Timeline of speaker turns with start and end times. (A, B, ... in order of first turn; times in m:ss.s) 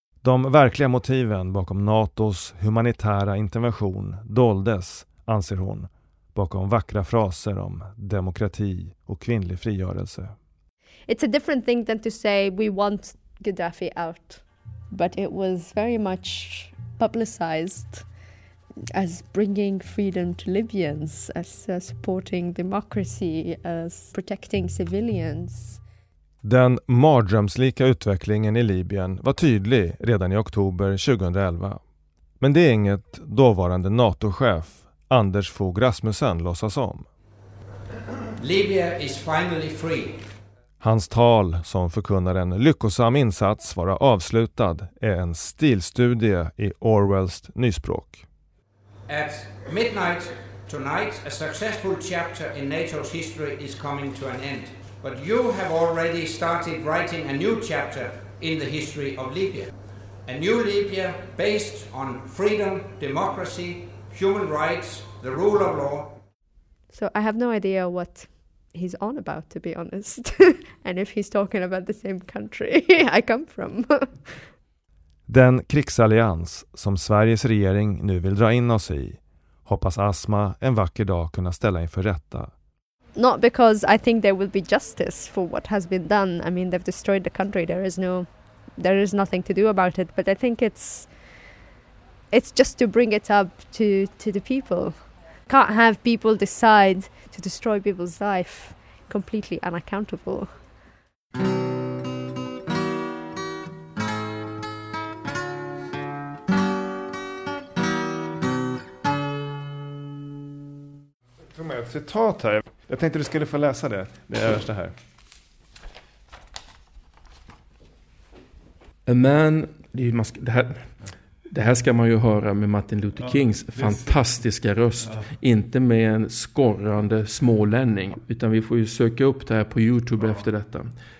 0:00.2-0:10.3 A
0:11.1-0:18.1 B
0:18.9-0:25.8 B
0:26.4-0:31.8 A
0:32.4-0:37.1 A
0:38.4-0:40.2 C
0:40.8-0:48.2 A
0:49.1-0:59.7 C
1:00.2-1:06.1 C
1:06.9-1:14.4 B
1:15.3-1:22.5 A
1:23.1-1:31.4 B
1:32.3-1:40.7 B
1:51.5-1:54.8 D
1:54.1-1:54.9 A
1:59.1-2:00.9 E
2:01.5-2:10.9 E
2:03.8-2:04.0 D